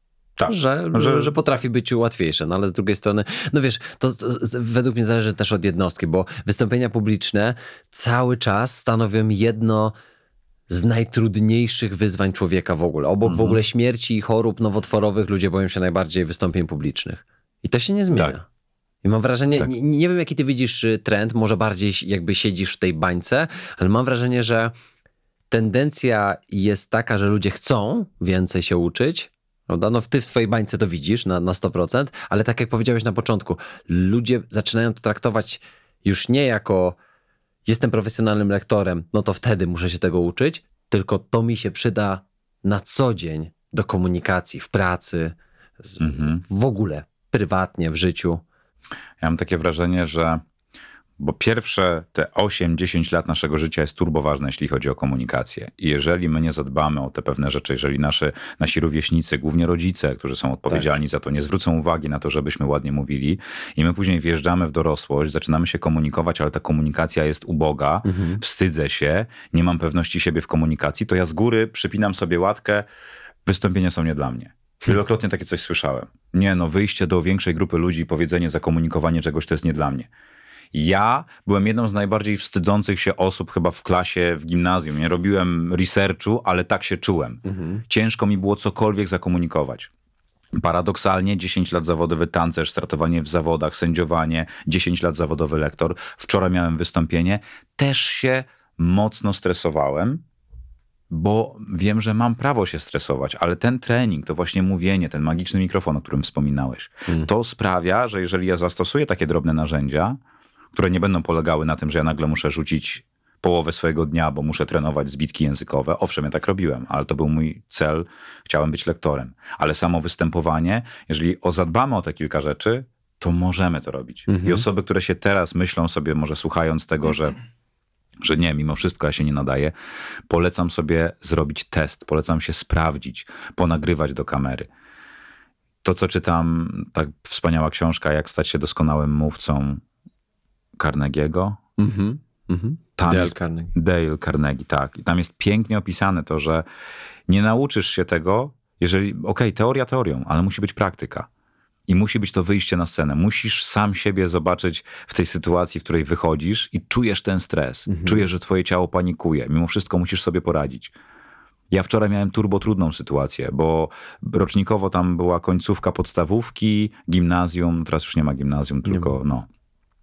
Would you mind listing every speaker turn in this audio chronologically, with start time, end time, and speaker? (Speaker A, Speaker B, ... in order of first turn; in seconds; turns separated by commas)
Speaker A: 0.4-1.3, Speaker B: 0.5-9.9, Speaker B: 10.7-18.4, Speaker A: 13.2-13.6, Speaker B: 19.0-24.7, Speaker B: 25.5-37.0, Speaker B: 37.7-48.4, Speaker A: 46.0-46.4, Speaker A: 49.2-50.4, Speaker A: 51.2-72.8, Speaker B: 68.0-68.4, Speaker A: 73.5-80.1, Speaker A: 80.7-89.9, Speaker B: 87.5-87.8, Speaker A: 90.5-100.2, Speaker A: 101.1-110.2, Speaker A: 110.7-127.4, Speaker B: 124.3-124.7, Speaker A: 128.2-129.7, Speaker A: 130.3-134.7, Speaker A: 135.8-139.8, Speaker A: 140.8-141.6, Speaker B: 141.8-143.7, Speaker A: 143.0-146.7, Speaker A: 147.3-151.3, Speaker A: 151.9-160.9, Speaker B: 157.9-158.3, Speaker A: 161.7-169.5, Speaker B: 168.9-169.1